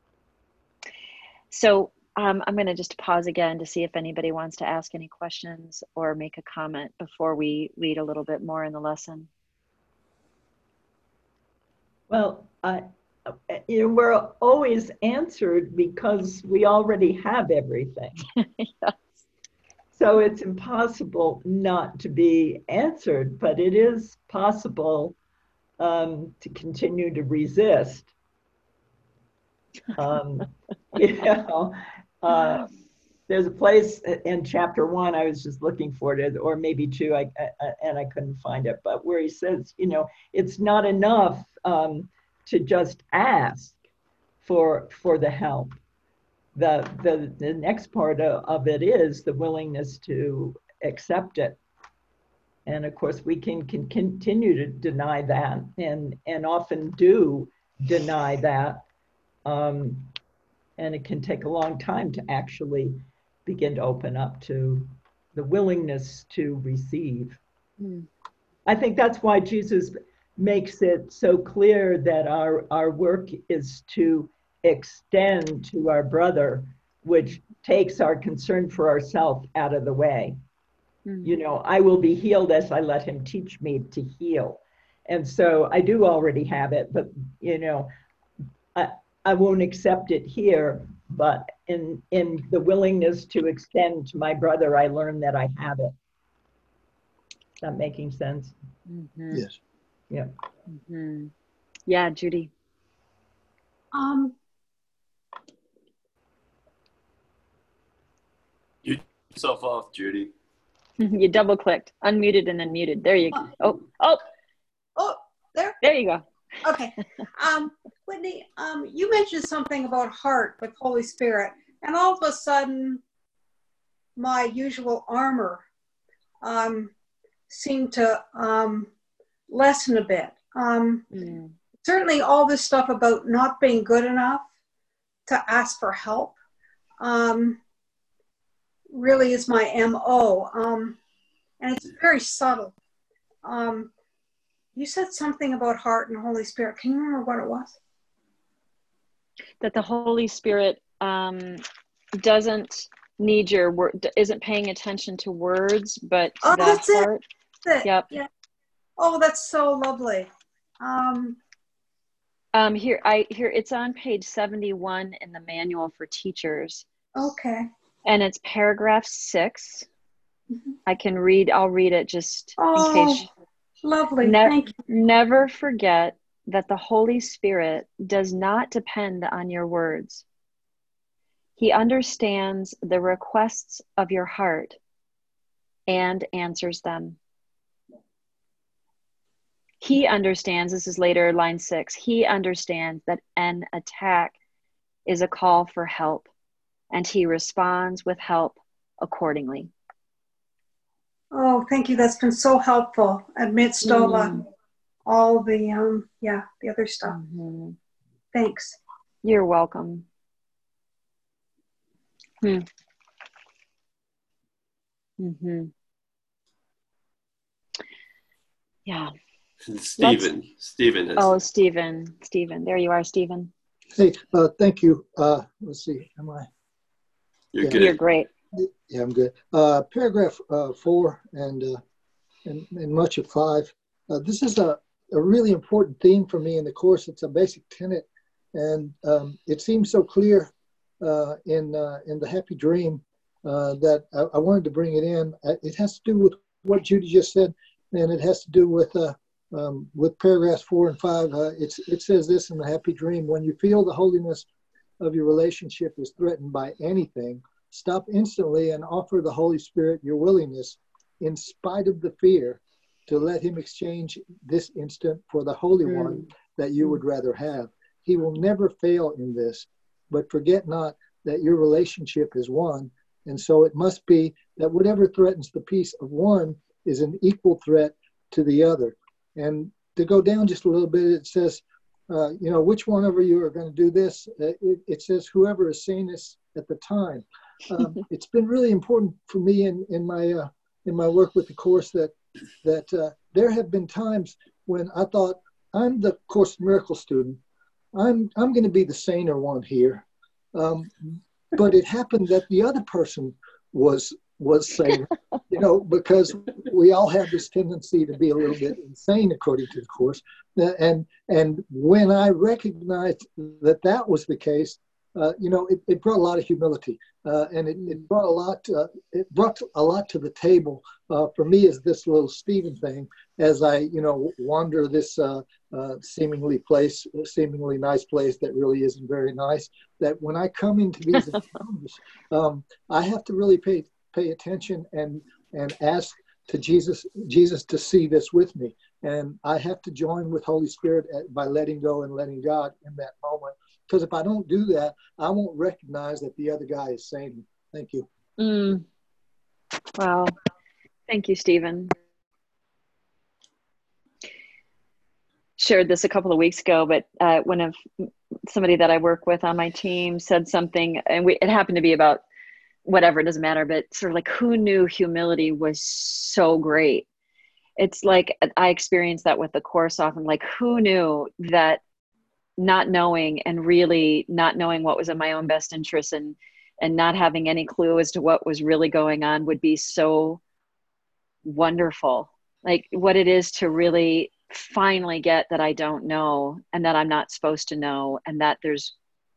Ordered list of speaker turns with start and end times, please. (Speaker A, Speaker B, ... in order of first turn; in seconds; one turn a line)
Speaker A: 1.5-9.3
Speaker B: 12.1-18.2
Speaker A: 18.4-18.9
Speaker B: 19.9-25.2
Speaker B: 25.8-28.1
Speaker B: 29.9-32.7
Speaker B: 33.3-43.8
Speaker B: 44.4-45.8
Speaker B: 46.5-51.6
Speaker B: 52.7-58.8
Speaker B: 59.5-60.1
Speaker B: 60.8-67.4
Speaker A: 67.8-68.1
Speaker B: 68.7-80.4
Speaker A: 81.1-81.3
Speaker B: 81.2-87.9
Speaker B: 88.8-95.9
Speaker B: 97.6-98.5
Speaker A: 98.9-99.4
Speaker A: 100.7-101.3
Speaker A: 101.9-102.5
Speaker C: 103.9-104.3
Speaker D: 108.8-110.3
Speaker A: 111.0-114.2
Speaker C: 115.0-115.8
Speaker A: 115.8-116.2
Speaker C: 116.6-123.0
Speaker C: 124.2-125.7
Speaker C: 126.4-126.9
Speaker C: 127.5-128.9
Speaker C: 129.5-131.1
Speaker A: 131.1-131.5
Speaker C: 131.8-134.5
Speaker C: 135.3-136.3
Speaker C: 137.0-137.6
Speaker C: 138.9-141.0
Speaker C: 141.6-142.7
Speaker C: 143.4-143.9
Speaker C: 144.8-147.7
Speaker A: 149.6-151.6
Speaker A: 152.2-157.2
Speaker C: 156.4-157.1
Speaker C: 157.7-158.3
Speaker A: 157.8-158.1
Speaker C: 159.0-160.3
Speaker C: 160.8-161.4
Speaker A: 162.5-166.9
Speaker C: 167.2-167.7
Speaker A: 168.1-169.9
Speaker A: 170.9-173.3
Speaker C: 172.6-173.3
Speaker C: 173.8-174.7
Speaker A: 174.2-180.2
Speaker A: 181.6-184.8
Speaker A: 185.9-187.2
Speaker A: 189.8-194.4
Speaker A: 195.1-196.3
Speaker A: 196.9-199.7
Speaker C: 201.3-204.4
Speaker A: 203.8-204.4
Speaker C: 205.1-207.2
Speaker A: 207.1-207.8
Speaker C: 208.3-208.8
Speaker A: 209.2-210.1
Speaker A: 215.2-215.7
Speaker A: 218.9-219.1
Speaker D: 219.7-221.3
Speaker A: 220.0-220.3
Speaker A: 221.2-223.5
Speaker E: 224.0-226.5
Speaker D: 227.5-228.0
Speaker A: 227.7-228.3
Speaker E: 228.6-231.8
Speaker E: 232.5-254.5
Speaker E: 255.0-292.1
Speaker A: 265.9-266.2
Speaker E: 292.6-297.4
Speaker E: 297.9-348.1
Speaker A: 348.4-348.9
Speaker A: 350.0-350.3
Speaker A: 351.1-351.9
Speaker A: 355.6-357.8
Speaker A: 358.5-362.2
Speaker A: 362.9-367.1
Speaker A: 367.8-371.8
Speaker A: 372.6-380.4
Speaker A: 381.4-388.9